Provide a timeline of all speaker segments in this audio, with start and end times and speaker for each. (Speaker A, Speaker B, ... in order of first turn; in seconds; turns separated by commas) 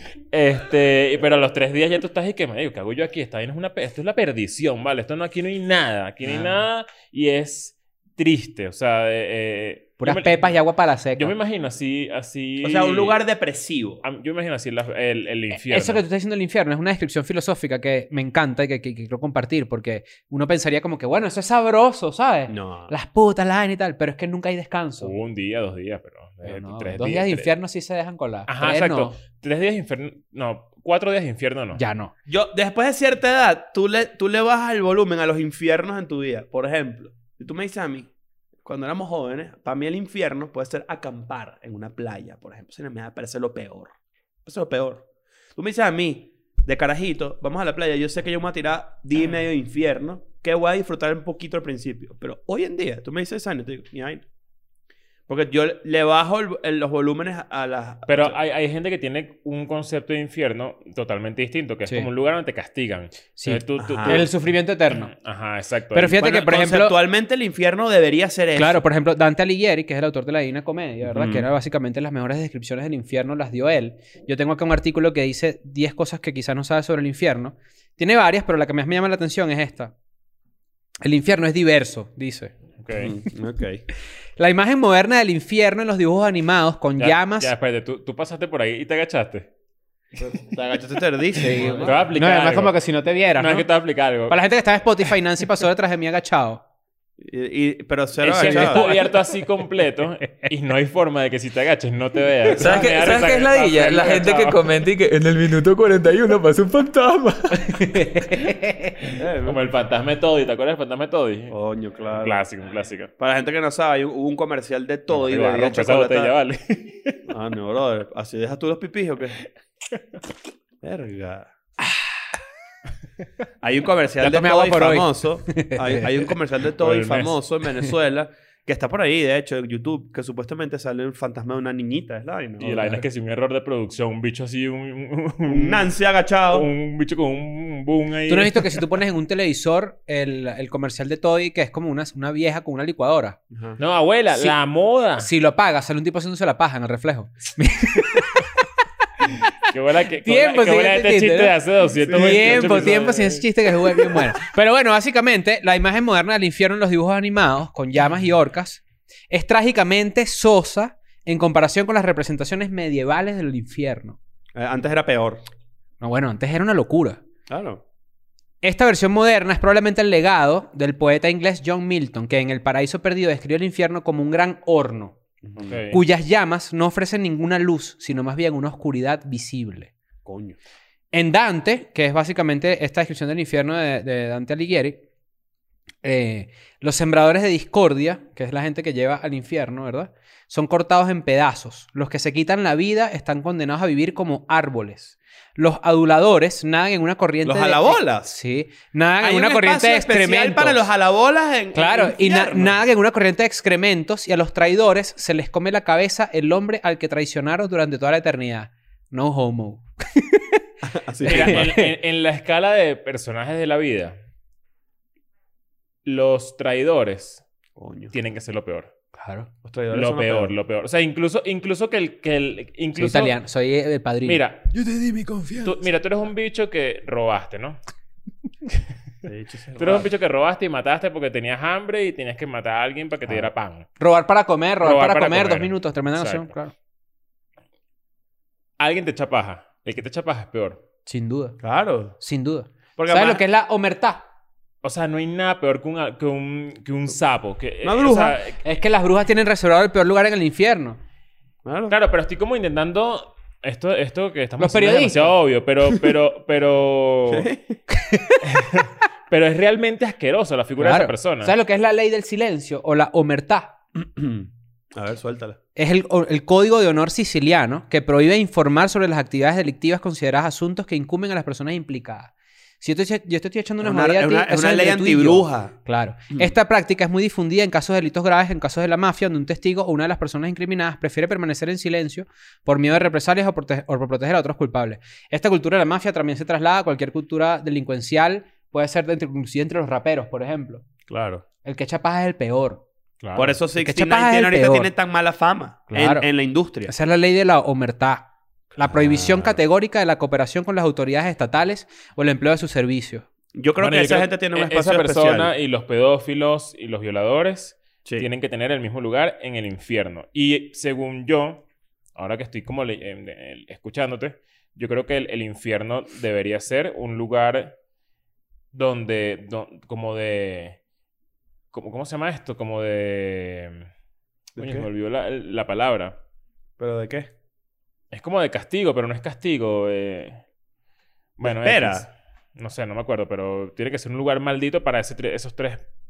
Speaker A: 0.3-10.6, Speaker B: 6.2-6.5, Speaker B: 10.0-11.3, Speaker A: 11.2-13.2, Speaker C: 12.6-14.0, Speaker A: 14.0-16.0, Speaker B: 15.6-25.1, Speaker C: 22.5-22.9, Speaker A: 25.0-27.5, Speaker B: 26.4-29.2, Speaker A: 28.5-31.8, Speaker B: 31.8-32.1, Speaker C: 32.3-38.1, Speaker C: 38.6-45.0, Speaker C: 45.6-54.2, Speaker C: 55.3-58.4, Speaker A: 58.1-64.3, Speaker B: 63.4-65.1, Speaker C: 63.8-64.3, Speaker A: 64.9-66.2, Speaker B: 65.9-67.0, Speaker C: 66.2-68.8, Speaker B: 68.6-79.9, Speaker C: 71.0-71.5, Speaker B: 81.0-82.5, Speaker A: 82.8-83.1, Speaker C: 83.0-83.8, Speaker B: 84.4-87.5, Speaker A: 87.0-89.5, Speaker C: 90.2-92.1, Speaker A: 91.4-92.8, Speaker B: 91.4-93.7, Speaker A: 93.4-94.4, Speaker B: 94.3-96.6, Speaker C: 97.2-98.8, Speaker A: 98.2-104.6, Speaker B: 98.3-99.2, Speaker D: 102.5-107.9, Speaker B: 107.7-108.9, Speaker A: 109.0-111.5, Speaker C: 109.2-109.6, Speaker C: 111.5-112.5, Speaker A: 112.2-113.1, Speaker C: 113.2-116.3, Speaker A: 115.1-117.2, Speaker C: 117.3-119.4, Speaker C: 120.8-121.5, Speaker C: 123.6-132.9, Speaker B: 124.2-126.3, Speaker A: 126.8-127.4, Speaker A: 132.6-135.9, Speaker C: 135.5-136.7, Speaker A: 136.5-138.8, Speaker B: 138.3-143.4, Speaker C: 143.5-143.8, Speaker A: 143.8-145.3, Speaker B: 145.2-148.5, Speaker A: 149.7-153.5, Speaker B: 150.2-151.6, Speaker C: 151.9-153.3, Speaker B: 152.1-164.2, Speaker C: 164.6-165.4, Speaker B: 166.0-167.2, Speaker C: 167.5-167.8, Speaker B: 168.6-175.2, Speaker C: 175.4-175.8, Speaker A: 175.7-176.0, Speaker B: 175.9-179.9, Speaker C: 180.2-180.6, Speaker B: 181.1-185.0, Speaker B: 186.0-200.8, Speaker C: 197.4-198.3, Speaker C: 199.2-202.8, Speaker B: 201.8-210.6, Speaker C: 210.8-211.7, Speaker B: 211.2-211.9, Speaker A: 211.2-214.2, Speaker A: 216.1-217.4, Speaker C: 217.8-218.1, Speaker A: 218.1-218.9, Speaker B: 219.2-219.5, Speaker C: 219.6-220.5, Speaker A: 219.9-223.4, Speaker B: 223.0-224.4, Speaker A: 224.2-224.7, Speaker C: 224.7-225.7, Speaker A: 225.6-227.8, Speaker C: 229.2-230.1, Speaker A: 229.8-233.9, Speaker B: 234.0-236.7, Speaker A: 234.8-236.5, Speaker A: 238.8-240.8, Speaker B: 241.1-241.6, Speaker C: 241.6-242.2, Speaker B: 242.2-244.2, Speaker C: 243.0-243.4, Speaker A: 244.8-248.6, Speaker C: 247.8-248.4, Speaker B: 248.6-251.0, Speaker C: 251.7-252.0, Speaker A: 251.9-257.5, Speaker B: 254.6-255.3, Speaker C: 257.3-257.8, Speaker B: 257.9-258.4, Speaker A: 258.4-261.5, Speaker B: 260.8-263.8, Speaker C: 263.9-265.6, Speaker B: 265.8-290.9, Speaker C: 273.8-275.7, Speaker C: 291.1-291.4, Speaker B: 291.6-292.8, Speaker A: 293.2-293.6, Speaker C: 293.4-296.9, Speaker B: 293.8-294.9, Speaker B: 295.9-296.3, Speaker B: 296.9-303.3, Speaker C: 298.9-299.6, Speaker C: 303.5-305.5, Speaker A: 303.8-317.8, Speaker A: 318.7-320.8, Speaker A: 321.7-323.9, Speaker A: 324.6-326.2, Speaker C: 324.6-324.9, Speaker C: 326.8-327.3, Speaker A: 328.1-330.4, Speaker A: 331.4-335.9, Speaker C: 331.4-332.1